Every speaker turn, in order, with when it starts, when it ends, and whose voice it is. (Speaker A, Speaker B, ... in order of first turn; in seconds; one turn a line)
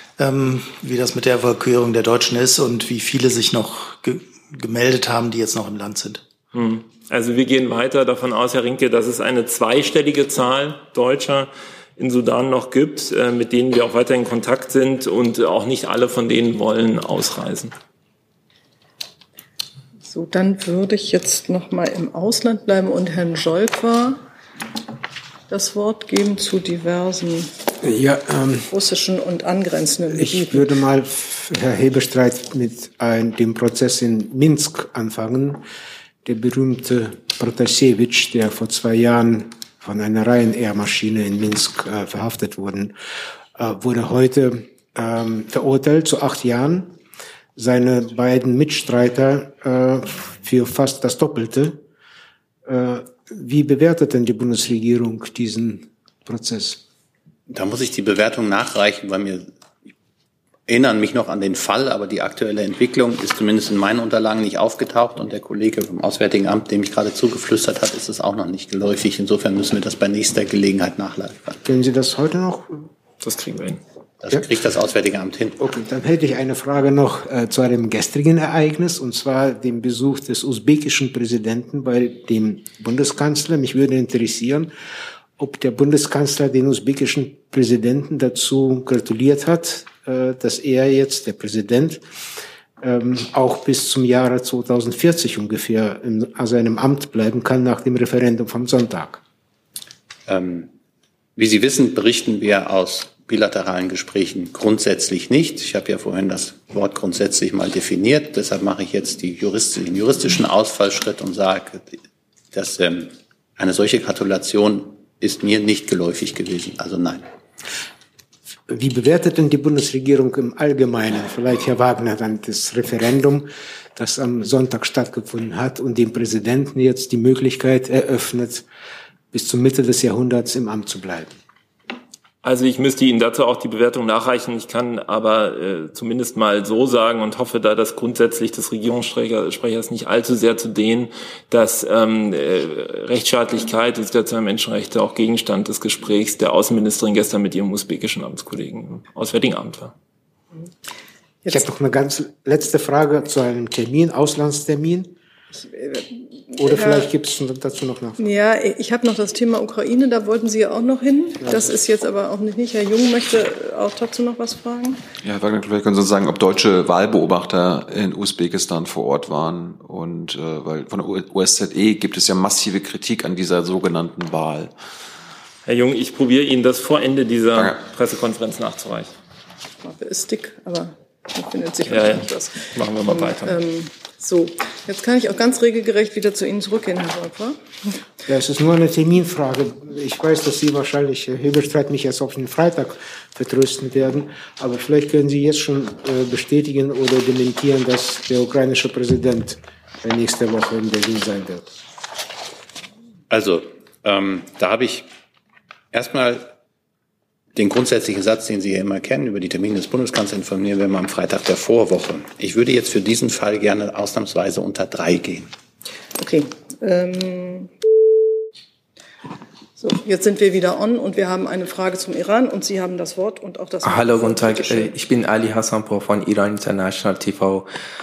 Speaker A: 0.2-6.2
Speaker B: 6.5-17.7
Speaker C: 20.1-24.2
Speaker C: 25.5-27.5
Speaker D: 27.8-28.7
Speaker C: 28.7-30.8
Speaker D: 30.1-35.6
Speaker D: 36.2-43.0
Speaker D: 43.6-47.0
Speaker D: 47.6-51.8
Speaker D: 52.7-56.8
Speaker E: 57.5-59.5
Speaker E: 60.7-71.6
Speaker D: 71.6-72.9
Speaker B: 73.2-73.8
Speaker E: 74.2-75.6
Speaker D: 75.6-84.7
Speaker D: 85.4-92.0
Speaker D: 92.8-99.2
Speaker E: 100.3-100.7
Speaker E: 101.4-112.0
Speaker E: 112.5-117.2
Speaker D: 118.7-128.6
Speaker D: 129.3-131.3
Speaker B: 132.4-149.9
Speaker D: 151.5-155.1
Speaker C: 155.6-157.1
Speaker D: 156.6-158.2
Speaker C: 158.2-165.0
Speaker D: 161.4-161.7
Speaker F: 165.2-174.7
Speaker B: 175.7-179.1
Speaker C: 179.8-187.6
Speaker B: 181.9-183.6
Speaker D: 188.3-201.7
Speaker E: 203.3-205.1
Speaker E: 205.9-206.5
Speaker E: 207.6-215.5
Speaker C: 216.2-217.7
Speaker C: 219.8-224.9
Speaker G: 223.8-227.7